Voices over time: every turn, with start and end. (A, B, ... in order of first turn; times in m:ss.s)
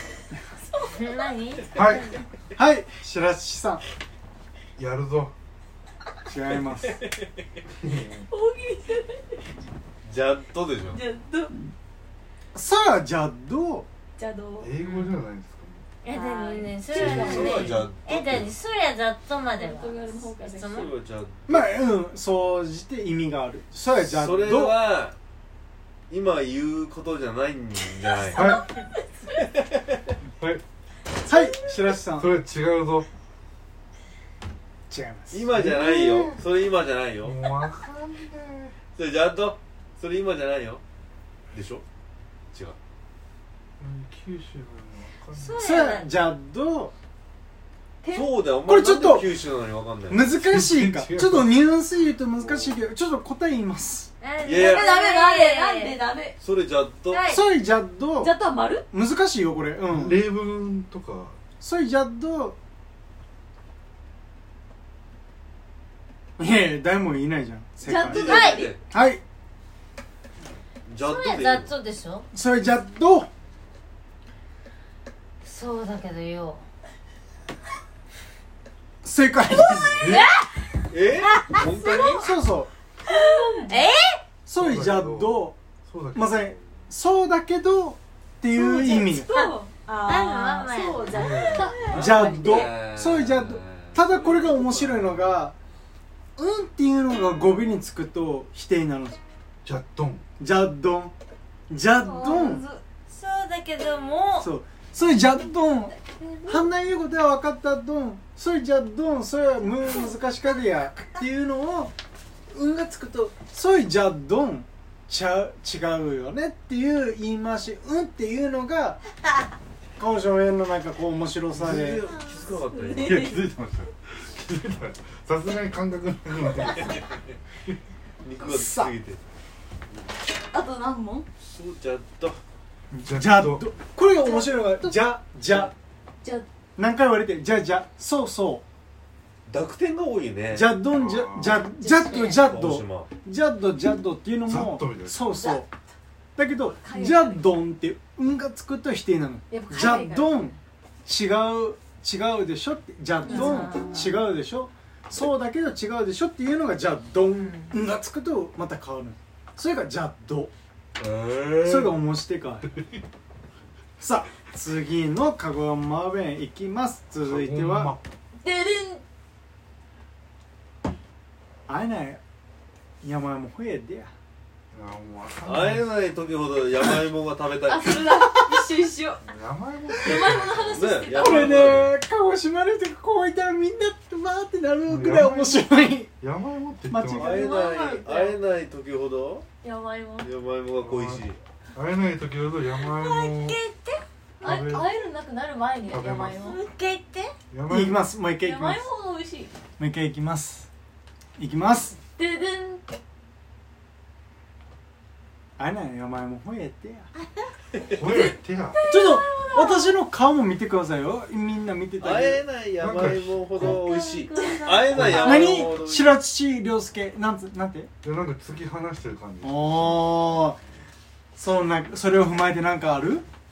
0:00.6-0:01.3 A
0:00.9-0:02.2 B
0:01.8-0:02.1 C
0:02.6-0:03.8 D
0:04.8-0:05.3 C
0:06.3-0:07.0 D
0:07.8-0:08.3 C
0:08.3-0:09.5 A
0:10.0-0:11.0 E
0:10.9-0:11.6 A
0:12.5-0:13.9 D
0:14.2-0:14.8 A
0:14.6-0:15.8 C
0:16.0-0:20.9 B
0:16.1-0:17.9 A
0:16.9-0:18.5 E
0:19.6-0:20.9 A
0:20.8-0:21.7 E
0:21.5-0:24.8 D
0:24.0-0:25.2 E
0:26.1-0:28.5 E
0:28.3-0:28.8 A
0:28.4-0:28.7 C
0:29.4-0:30.0 E
0:30.3-0:30.6 C
0:31.2-0:32.3 D
0:32.2-0:33.1 C
0:34.9-0:35.4 D
0:35.3-0:37.4 E
0:35.5-0:36.4 C
0:37.2-0:38.8 C
0:39.0-0:40.8 E
0:41.5-0:41.8 E
0:43.8-0:45.6 C
0:45.3-0:46.1 B
0:45.6-0:46.9 D
0:48.0-0:48.3 A
0:48.1-0:50.3 E
0:48.7-0:49.3 D
0:50.1-0:54.1 D
0:50.4-0:51.7 C
0:52.2-0:52.8 C
0:54.2-0:56.0 B
0:54.4-0:54.9 E
0:54.6-0:56.4 A
0:56.4-0:57.3 E
0:57.1-0:57.4 B
0:57.3-0:58.3 D
0:58.2-0:58.9 A
0:58.9-1:00.2 D
0:59.9-1:01.4 C
1:01.6-1:02.6 D
1:06.4-1:09.2 D
1:07.8-1:08.8 A
1:08.0-1:08.8 E
1:10.9-1:11.7 E
1:11.0-1:12.3 B
1:12.3-1:13.3 D
1:15.4-1:16.6 B
1:19.0-1:20.2 D
1:20.0-1:20.3 C
1:20.1-1:20.5 B
1:20.9-1:22.3 E
1:21.3-1:21.6 B
1:21.7-1:22.3 A
1:22.2-1:22.7 D
1:23.0-1:23.8 A
1:23.7-1:24.2 B
1:24.5-1:25.6 D
1:24.6-1:26.7 C
1:26.2-1:29.3 D
1:28.5-1:32.7 A
1:29.3-1:31.1 B
1:31.1-1:31.8 C
1:31.7-1:35.4 E
1:31.9-1:35.6 D
1:36.4-1:39.2 D
1:39.6-1:40.2 C
1:40.4-1:41.1 D
1:41.7-1:42.6 D
1:42.0-1:42.8 A
1:43.1-1:44.5 B
1:44.4-1:46.0 D
1:46.0-1:46.6 A
1:46.5-1:51.9 D
1:52.5-1:59.0 D
2:00.0-2:02.0 D
2:01.5-2:03.2 E
2:02.7-2:03.4 A
2:03.0-2:07.1 C
2:08.2-2:09.2 E
2:08.4-2:08.9 D
2:10.5-2:11.3 A
2:11.4-2:12.4 E
2:12.9-2:15.7 D
2:13.1-2:13.7 C
2:14.2-2:14.6 A
2:16.8-2:18.6 D
2:19.5-2:20.7 E
2:20.5-2:25.7 D
2:20.8-2:21.7 C
2:21.8-2:22.5 A
2:22.4-2:23.1 E
2:24.5-2:25.3 C
2:25.4-2:25.7 A
2:26.4-2:40.5 D
2:26.8-2:27.5 A
2:29.5-2:30.6 A
2:33.3-2:34.2 B
2:33.3-2:33.6 A
2:37.4-2:37.8 B
2:41.0-2:42.0 E
2:41.6-2:42.7 D
2:44.0-2:48.0 D
2:47.2-2:48.0 C
2:48.4-2:49.0 A
2:51.7-2:52.2 D
2:53.0-2:54.1 D
2:54.7-2:55.9 C
2:55.4-2:58.0 E
2:57.7-2:59.2 A
2:59.2-3:00.9 C
3:00.0-3:01.7 A
3:00.7-3:01.9 E
3:01.2-3:06.1 D
3:04.9-3:07.4 C
3:06.9-3:07.6 D
3:07.2-3:09.5 E
3:07.3-3:08.4 A
3:09.6-3:10.3 A
3:10.2-3:11.4 E
3:10.8-3:13.6 C
3:12.8-3:14.0 B
3:14.4-3:14.9 C
3:14.4-3:16.6 A
3:15.9-3:16.4 C
3:16.4-3:17.3 B
3:17.5-3:18.0 C
3:17.7-3:18.9 D
3:18.4-3:19.5 A
3:19.8-3:20.7 D
3:21.4-3:22.0 D
3:22.2-3:22.9 A
3:25.6-3:27.1 D
3:27.9-3:28.8 C
3:28.1-3:29.9 A
3:28.9-3:32.4 D
3:32.0-3:36.1 E
3:32.8-3:33.8 C
3:33.6-3:34.7 B
3:33.8-3:35.6 A
3:34.9-3:35.4 C
3:35.0-3:37.9 D
3:38.0-3:40.0 C
3:39.4-3:40.6 D
3:41.4-3:43.2 D